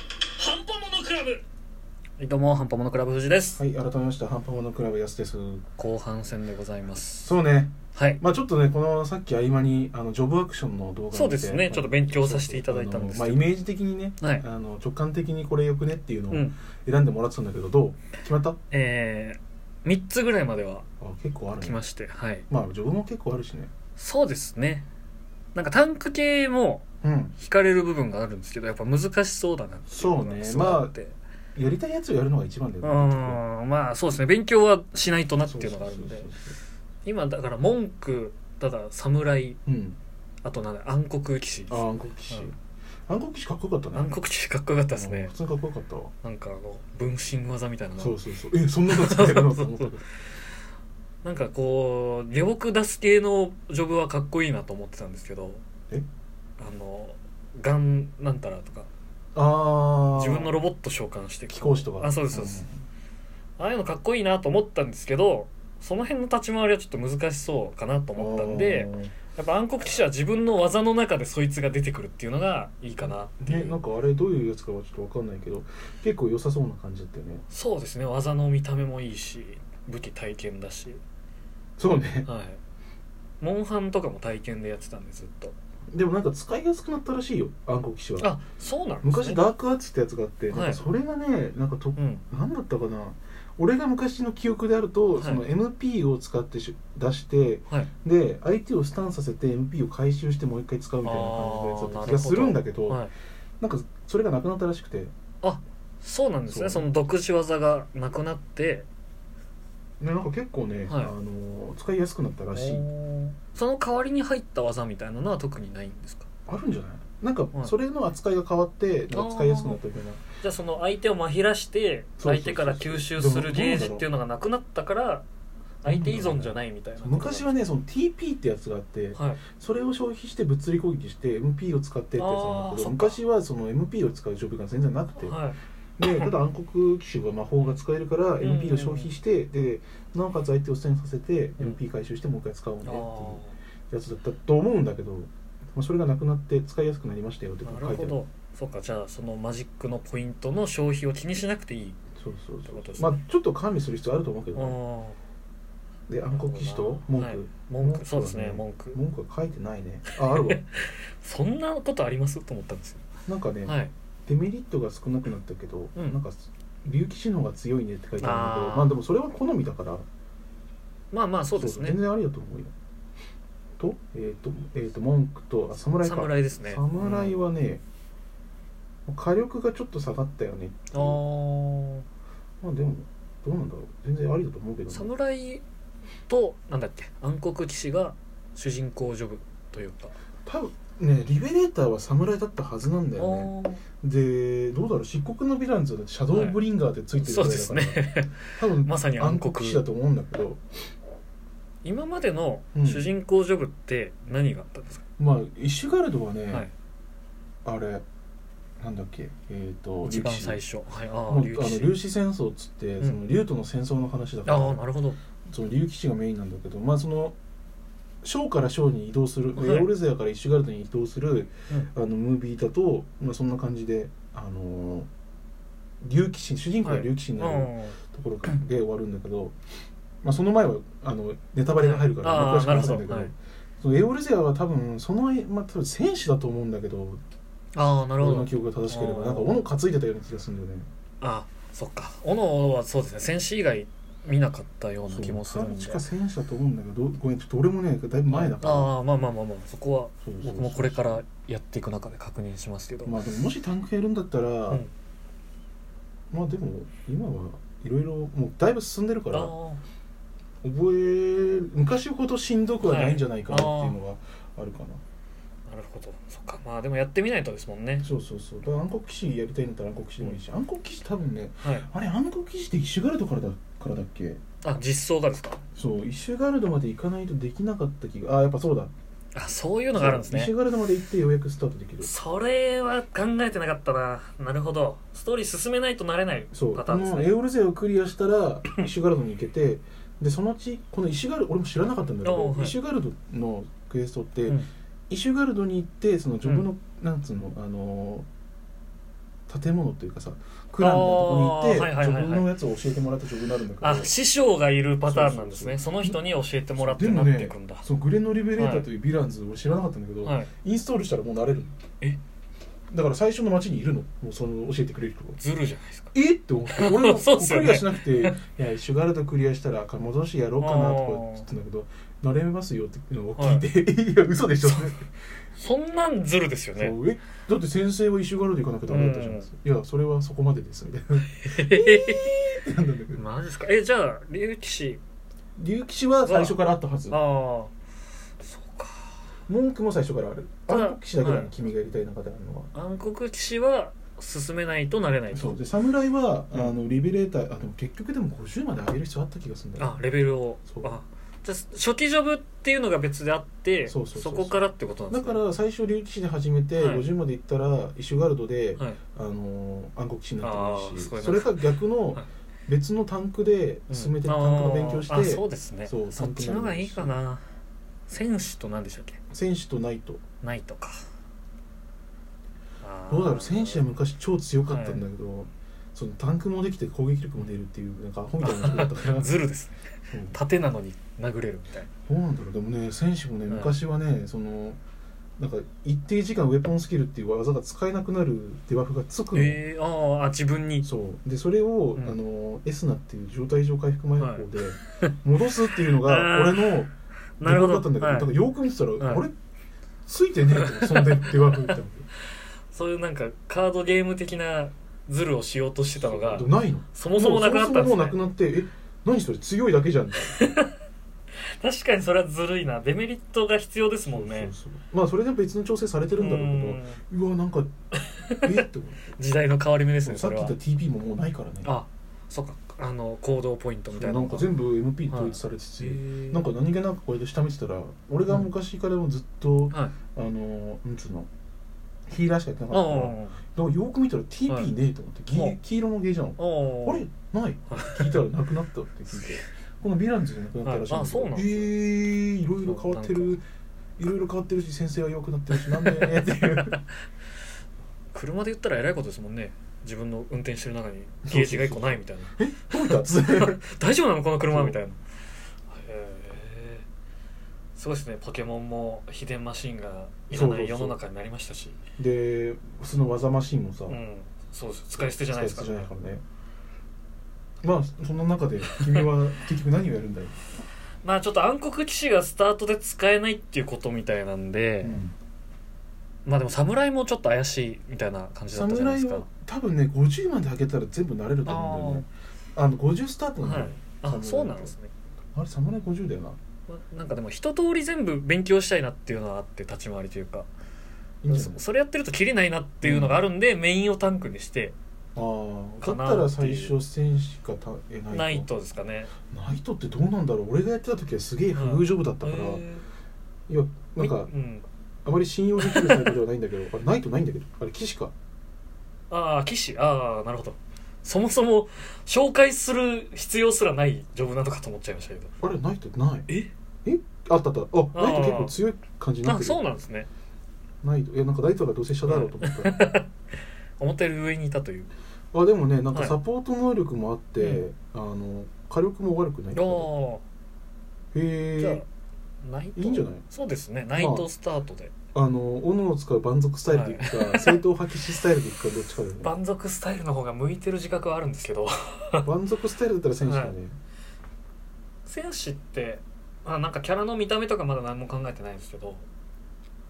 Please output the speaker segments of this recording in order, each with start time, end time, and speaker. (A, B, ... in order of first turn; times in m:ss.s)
0:00.4-0:01.4 A
0:02.2-0:03.6 A
0:03.6-0:05.6 B
0:05.8-0:07.3 A
0:07.2-0:18.6 B
0:08.0-0:08.2 A
0:11.1-0:13.5 A
0:14.2-0:14.4 A
0:18.7-0:20.9 A
0:21.0-0:21.8 B
0:21.6-0:22.5 A
0:22.5-0:23.7 B
0:24.0-0:24.9 A
0:25.6-0:26.8 A
0:27.0-0:27.4 B
0:27.4-0:31.2 A
0:29.9-0:30.9 B
0:31.6-0:33.4 B
0:32.8-0:36.3 A
0:35.4-0:36.6 B
0:37.0-0:39.6 A
0:39.7-0:40.0 B
0:40.4-0:42.5 A
0:41.7-0:42.6 B
0:43.1-0:44.2 B
0:43.9-0:45.3 A
0:44.9-0:46.1 B
0:46.2-0:48.2 A
0:48.0-0:50.0 B
0:48.9-0:49.9 A
0:51.2-0:55.6 A
0:56.6-0:58.9 A
0:59.4-1:00.5 B
1:00.1-1:02.6 A
1:01.5-1:02.7 B
1:03.6-1:13.8 A
1:08.2-1:09.2 B
1:13.4-1:17.4 B
1:17.5-1:21.0 A
1:21.8-1:22.3 B
1:22.2-1:22.6 A
1:23.4-1:25.6 A
1:25.9-1:28.3 B
1:28.2-1:29.4 A
1:29.0-1:43.0 B
1:30.5-1:30.8 A
1:32.0-1:32.2 A
1:35.2-1:35.5 A
1:41.0-1:43.1 A
1:43.6-1:45.1 B
1:45.4-1:48.9 A
1:46.5-1:46.9 B
1:50.0-1:52.9 B
1:50.9-1:51.1 A
1:52.6-1:56.3 A
1:56.5-2:00.2 B
1:59.1-1:59.8 A
2:00.4-2:05.2 A
2:02.2-2:04.1 B
2:05.8-2:07.6 A
2:05.8-2:15.4 B
2:09.1-2:09.4 A
2:12.2-2:13.2 A
2:15.2-2:16.3 A
2:16.0-2:28.2 B
2:18.4-2:19.1 A
2:22.8-2:23.6 A
2:27.6-2:32.0 A
2:32.2-2:34.8 B
2:32.6-2:33.2 A
2:34.6-2:35.2 A
2:36.1-2:40.6 B
2:36.3-2:39.0 A
2:40.1-2:43.0 A
2:43.3-2:50.0 B
2:43.6-2:43.9 A
2:48.2-2:49.0 A
2:51.1-2:52.0 A
2:51.6-2:52.7 B
2:53.8-2:57.8 B
2:56.0-2:57.4 A
2:59.1-3:01.2 B
3:00.9-3:02.0 A
3:02.6-3:05.1 B
3:04.9-3:05.6 A
3:06.3-3:10.1 A
3:10.4-3:18.0 B
3:13.2-3:13.8 A
3:16.3-3:16.6 A
3:17.2-3:19.9 A
3:18.6-3:20.6 B
3:21.8-3:25.0 A
3:22.8-3:23.1 B
3:25.2-3:26.7 B
3:27.6-3:28.0 B
3:28.8-3:30.6 B
3:30.0-3:32.0 A
3:31.3-3:34.8 B
3:34.5-3:35.2 A
3:35.5-3:37.4 B
3:38.2-3:45.1 B
3:39.6-3:39.9 A
3:46.0-3:49.6 B
3:46.8-3:48.0 A
3:50.2-3:57.2 B
3:51.7-3:53.3 A
3:57.8-3:59.6 A
3:58.2-4:00.9 B
4:01.2-4:06.0 A
4:05.1-4:08.9 B
4:08.3-4:13.2 A
4:10.2-4:11.2 B
4:13.0-4:14.8 B
4:16.3-4:19.5 B
4:19.3-4:19.8 A
4:20.6-4:25.0 B
4:22.8-4:24.0 A
4:25.7-4:28.1 A
4:28.0-4:34.4 B
4:31.6-4:31.9 A
4:34.6-4:35.6 A
4:35.8-4:38.9 B
4:39.4-4:40.5 A
4:39.9-4:42.1 B
4:42.0-4:47.3 A
4:46.5-4:58.3 B
4:52.2-4:52.8 A
4:59.5-5:04.1 B
5:00.8-5:02.5 A
5:03.8-5:07.8 A
5:05.0-5:06.2 B
5:06.8-5:11.8 B
5:08.6-5:08.9 A
5:10.2-5:10.5 A
5:12.9-5:15.4 B
5:15.4-5:16.1 A
5:16.1-5:25.1 B
5:16.7-5:18.4 A
5:20.6-5:21.5 A
5:23.4-5:23.7 A
5:24.6-5:25.0 A
5:25.6-5:27.0 A
5:26.8-5:33.2 B
5:28.9-5:29.5 A
5:31.3-5:32.5 A
5:33.2-5:35.0 A
5:35.6-5:37.2 B
5:36.3-5:36.6 A
5:37.1-5:37.7 A
5:38.4-5:39.3 A
5:39.5-5:42.7 B
5:40.7-5:41.5 A
5:42.7-5:45.6 A
5:45.3-5:50.0 B
5:49.8-5:55.4 A
5:53.9-5:54.6 B
5:55.1-6:07.1 B
5:56.8-5:57.1 A
6:00.4-6:02.3 A
6:03.9-6:07.4 A
6:08.1-6:09.2 A
6:09.3-6:10.2 B
6:10.4-6:11.0 A
6:12.8-6:13.9 A
6:13.1-6:19.3 B
6:14.7-6:15.0 A
6:18.4-6:21.9 A
6:20.1-6:20.4 B
6:22.1-6:24.8 B
6:23.5-6:23.7 A
6:25.4-6:29.6 B
6:29.3-6:30.9 A
6:30.8-6:39.3 B
6:34.2-6:35.1 A
6:35.9-6:36.8 A
6:37.4-6:38.3 A
6:39.0-6:39.2 A
6:40.1-6:42.1 B
6:40.6-6:41.8 A
6:42.7-6:48.2 A
6:46.0-6:50.4 B
6:50.3-6:50.8 A
6:51.4-6:54.5 A
6:54.1-6:57.7 B
6:56.1-6:57.0 A
6:58.0-6:58.6 A
6:58.4-6:59.2 B
6:59.2-7:00.6 A
7:00.0-7:01.7 B
7:01.6-7:04.6 A
7:03.9-7:11.3 B
7:05.1-7:06.5 A
7:09.7-7:10.0 A
7:12.1-7:23.4 B
7:12.7-7:13.4 A
7:15.3-7:15.6 A
7:16.4-7:17.1 A
7:17.7-7:18.2 A
7:19.1-7:19.4 A
7:20.6-7:21.7 A
7:22.6-7:23.4 A
7:24.0-7:26.8 B
7:25.5-7:26.8 A
7:28.1-7:35.0 A
7:31.3-7:33.6 B
7:34.5-7:34.8 B
7:35.7-7:36.9 A
7:37.8-7:41.8 A
7:40.3-7:41.0 B
7:42.0-7:44.0 B
7:43.9-7:45.9 A
7:45.0-7:46.2 B
7:47.6-7:50.4 B
7:48.6-7:49.1 A
7:51.0-7:55.0 A
7:54.8-7:55.2 B
7:56.3-7:59.3 A
7:58.5-8:04.7 B
8:01.5-8:02.0 A
8:03.4-8:04.9 A
8:05.4-8:06.4 B
8:06.7-8:10.5 A
8:11.2-8:11.6 B
8:11.3-8:14.8 A
8:12.8-8:13.2 B
8:15.2-8:18.5 B
8:15.8-8:16.8 A
8:18.1-8:19.1 A
8:19.3-8:22.6 B
8:21.5-8:22.8 A
8:23.5-8:24.3 B
8:24.0-8:24.6 A
8:25.0-8:28.1 B
8:25.6-8:26.2 A
8:29.1-8:35.3 A
8:35.4-8:36.3 B
8:36.8-8:39.6 B
8:37.9-8:38.5 A
8:39.2-8:40.1 A
8:40.8-8:42.9 B
8:42.0-8:43.1 A
8:43.8-8:44.9 A
8:45.3-8:49.9 B
8:49.5-8:50.2 A
8:51.1-8:51.8 B
8:51.6-8:51.9 A
8:52.4-8:54.9 A
8:52.8-8:53.2 B
8:54.0-8:54.3 B
8:55.1-8:59.3 B
8:56.7-8:57.6 A
8:59.2-9:02.3 A
9:02.2-9:03.8 B
9:03.2-9:03.6 A
9:05.1-9:09.0 A